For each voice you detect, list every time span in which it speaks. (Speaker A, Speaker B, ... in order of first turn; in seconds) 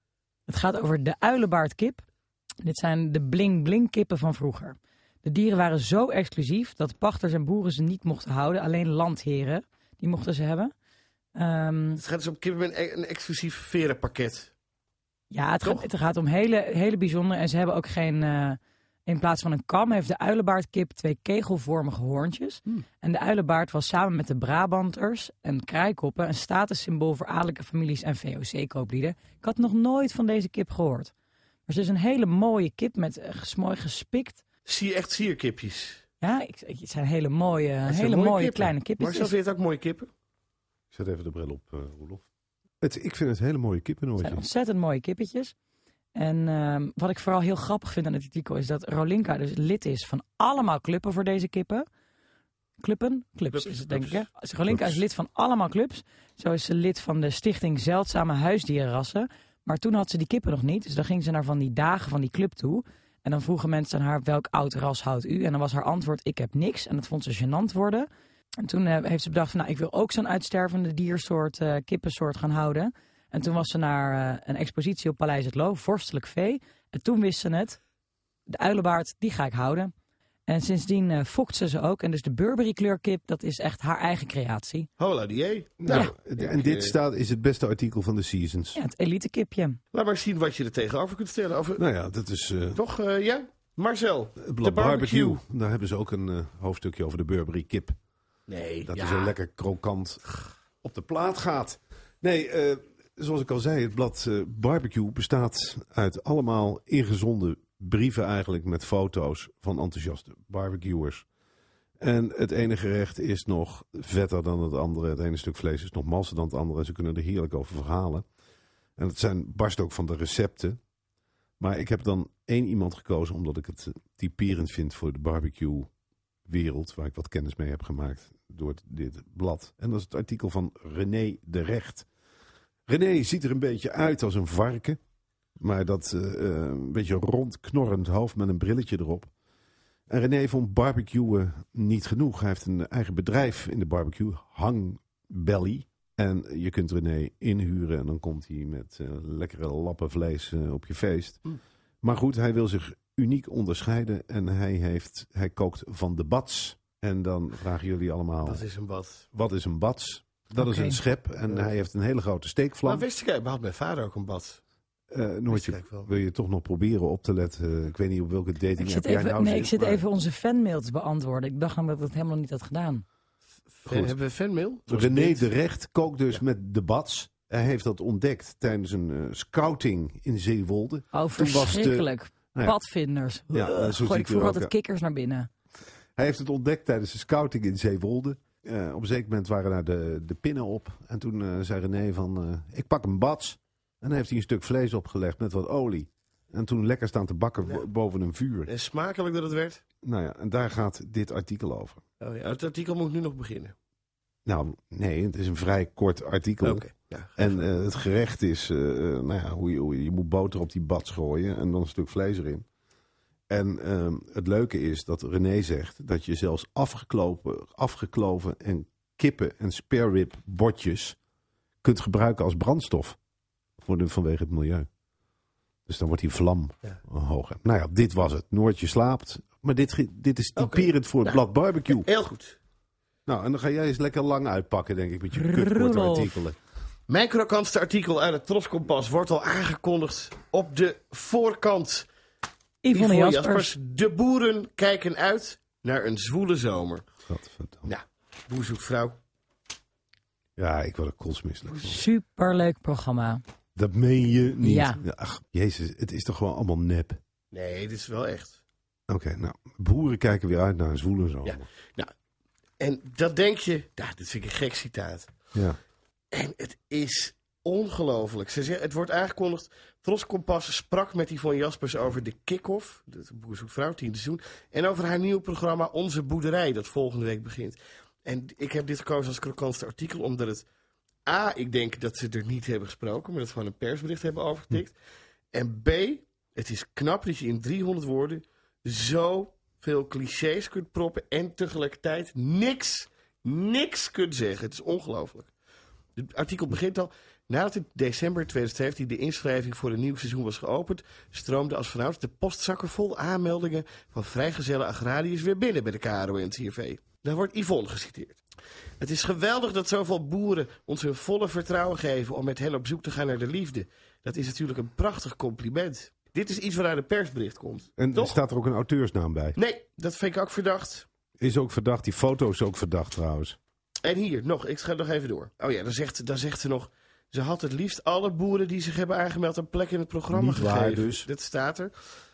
Speaker A: 0.5-2.0, 2.6-10.7, 11.4-12.0, 15.3-31.1, 31.7-34.4, 36.2-39.3, 44.2-45.5, 46.1-51.9, 52.8-68.1, 68.6-77.8, 78.5-79.9, 80.5-84.9, 88.8-89.8, 160.6-161.0, 168.8-173.0, 181.1-185.5, 235.4-236.3, 242.8-243.7, 251.8-253.4, 254.6-255.0
Speaker B: 12.0-14.5, 34.7-36.0, 37.9-40.1, 53.5-54.2, 85.0-87.0, 89.9-91.8, 92.8-95.4, 98.5-99.3, 158.4-159.3, 162.8-164.6, 165.5-166.1, 173.8-175.5, 198.7-199.8, 202.2-203.7, 206.6-207.6, 230.6-232.6, 237.1-242.1, 242.9-247.1, 247.9-249.2, 257.5-258.6, 261.4-262.1, 262.8-265.3, 266.3-280.7, 281.3-284.9, 285.5-295.5, 296.2-308.4, 309.0-318.4, 319.6-321.1, 324.0-331.9
Speaker C: 40.9-42.2, 42.8-44.4, 54.7-55.0, 85.8-88.8, 91.8-92.8, 94.4-98.0, 98.9-100.2, 100.8-111.2, 112.0-118.3, 119.0-120.8, 121.6-125.9, 126.5-132.1, 132.9-135.0, 135.6-139.3, 140.1-151.4, 152.0-158.7, 159.3-163.1, 165.1-170.0, 173.9-174.2, 174.9-182.8, 183.5-184.7, 186.2-198.7, 200.0-202.0, 204.5-206.8, 207.4-212.7, 213.5-221.2, 221.8-223.2, 223.8-224.9, 225.9-232.1, 233.3-236.6, 247.3-247.9, 250.6-252.0, 253.8-257.2, 259.1-261.7, 318.0-319.6, 321.4-323.6, 330.3-331.3